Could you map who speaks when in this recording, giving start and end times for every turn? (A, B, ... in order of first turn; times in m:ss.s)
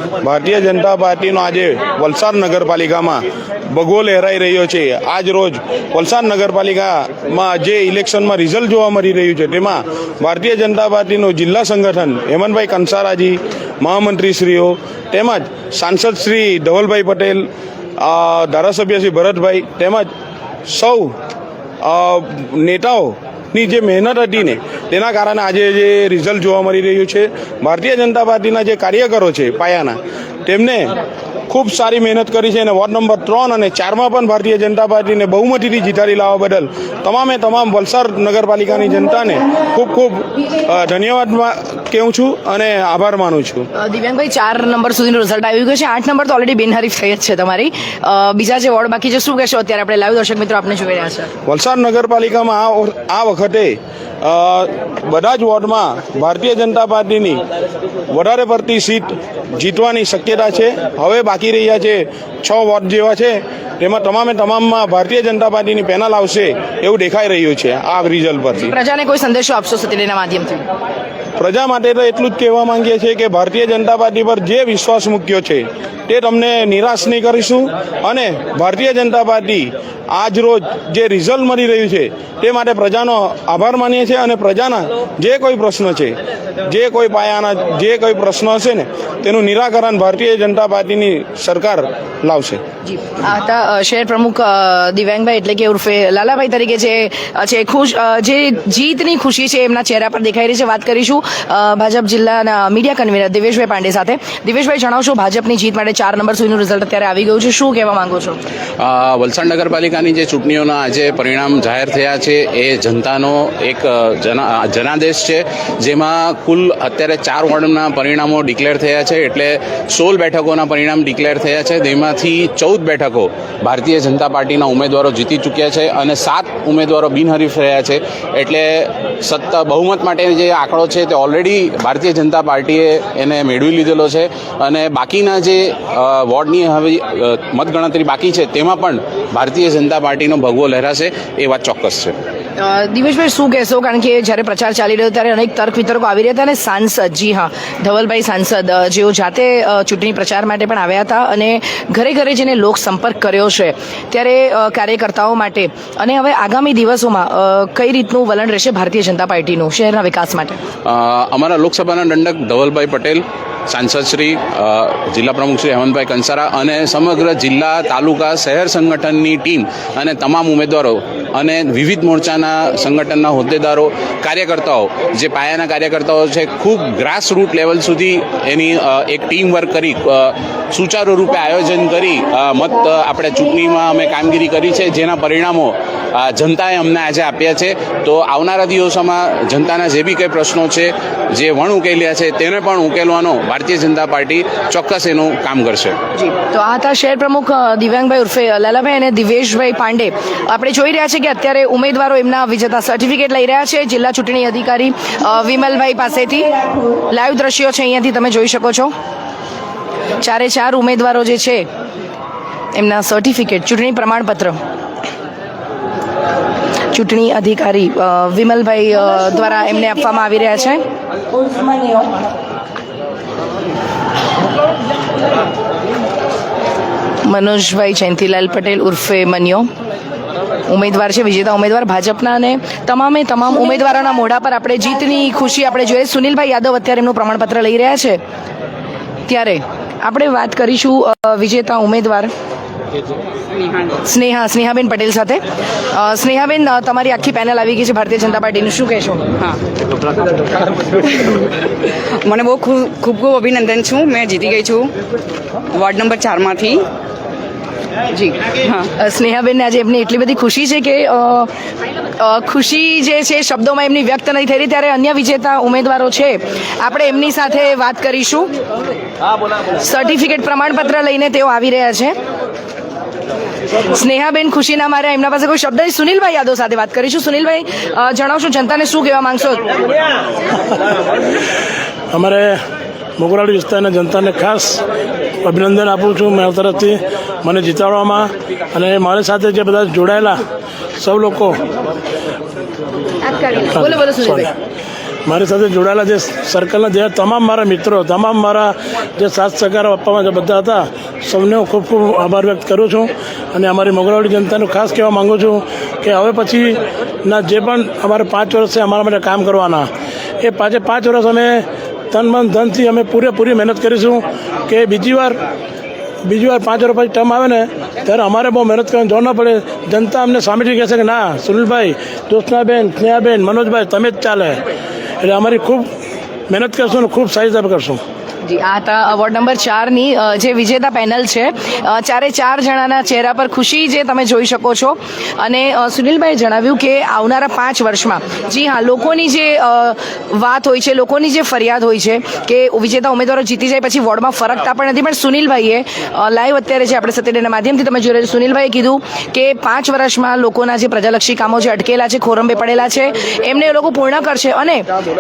0:00.2-0:17.5 A
0:18.0-0:20.1 A
0:20.7-0:21.1 A
0:21.8-0:30.9 A
0:31.5-0:43.7 A
0:43.8-0:51.3 B
0:51.5-0:57.4 A
0:58.1-1:08.7 A
1:08.6-1:10.6 B
1:11.4-1:26.2 A
1:26.7-1:32.6 A
1:32.9-1:48.4 B
1:48.8-2:22.1 C
2:22.6-2:40.6 B
2:40.8-3:16.0 C
3:16.2-3:28.9 B
3:30.2-3:31.7 B
3:32.7-3:34.6 B
3:36.9-3:40.8 B
3:47.2-3:49.7 B
3:50.7-3:58.2 B
3:59.3-4:02.3 B
4:04.0-4:09.3 B
4:11.0-4:11.5 D
4:12.2-4:14.9 D
4:15.8-4:16.9 D
4:18.1-4:21.5 B
4:22.2-4:28.5 B
4:29.8-4:32.2 B
4:33.9-4:39.6 B
4:42.2-4:42.6 E
4:43.2-4:44.8 E
4:45.4-4:48.3 E
4:48.9-4:50.4 E
4:51.0-4:51.6 E
4:53.2-4:54.4 B
4:53.8-4:54.5 E
4:55.3-4:58.7 E
4:59.2-5:09.8 E
5:10.4-5:11.5 E
5:12.1-5:15.4 E
5:16.3-5:24.6 E
5:25.3-5:25.9 E
5:26.5-5:28.0 E
5:28.4-5:54.9 B